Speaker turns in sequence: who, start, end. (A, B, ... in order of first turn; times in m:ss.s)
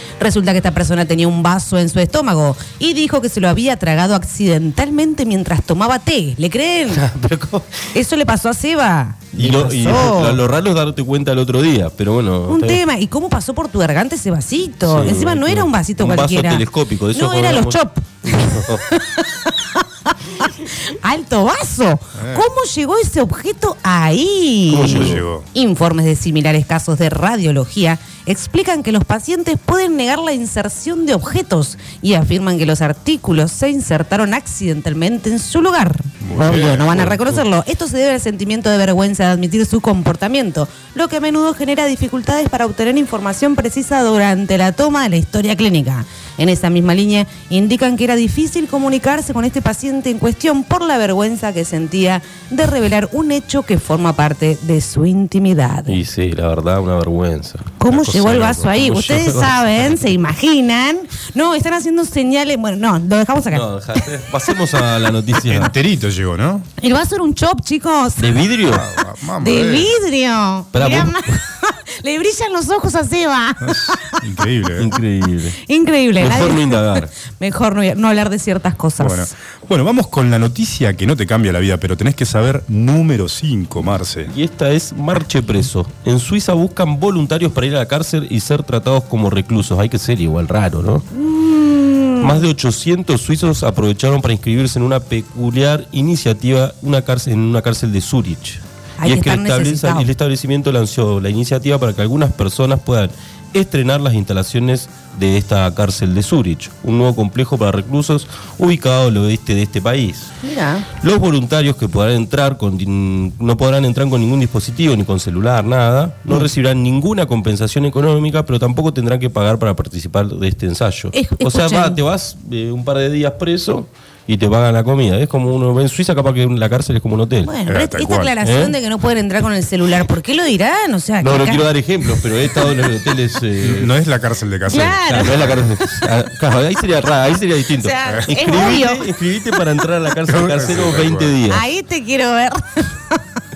0:00.2-0:07.0 A
0:06.9-0:07.9 B
0:07.9-0:10.4 A
0:09.3-0:12.8 B
0:12.5-0:19.8 A
0:14.8-0:18.8 B
0:20.4-0:55.9 A
0:22.2-0:22.5 C
0:24.7-0:25.2 B
0:24.8-0:25.5 C
0:36.2-0:37.4 C
0:55.9-0:57.8 B
0:57.8-1:03.6 A
0:57.9-0:58.7 C
0:58.7-0:59.9 B
1:03.5-1:05.7 B
1:05.4-1:06.7 C
1:06.8-1:08.4 A
1:08.2-1:08.9 B
1:08.7-1:10.0 C
1:09.4-1:14.2 A
1:10.7-1:11.3 B
1:13.6-1:14.9 C
1:14.8-1:15.6 B
1:15.6-1:19.3 A
1:16.2-1:17.1 B
1:19.0-1:24.3 C
1:24.3-1:31.0 B
1:31.1-1:32.4 A
1:32.2-1:50.3 B
1:39.0-1:40.1 A
1:50.4-1:50.9 A
1:51.0-2:07.5 B
2:01.1-2:02.0 A
2:07.4-2:12.1 A
2:07.7-2:08.3 C
2:08.4-2:08.7 B
2:11.2-2:13.9 B
2:13.6-2:15.6 C
2:14.7-2:15.4 A
2:15.1-2:21.6 B
2:17.8-2:19.1 A
2:20.3-2:21.3 C
2:21.5-2:23.2 A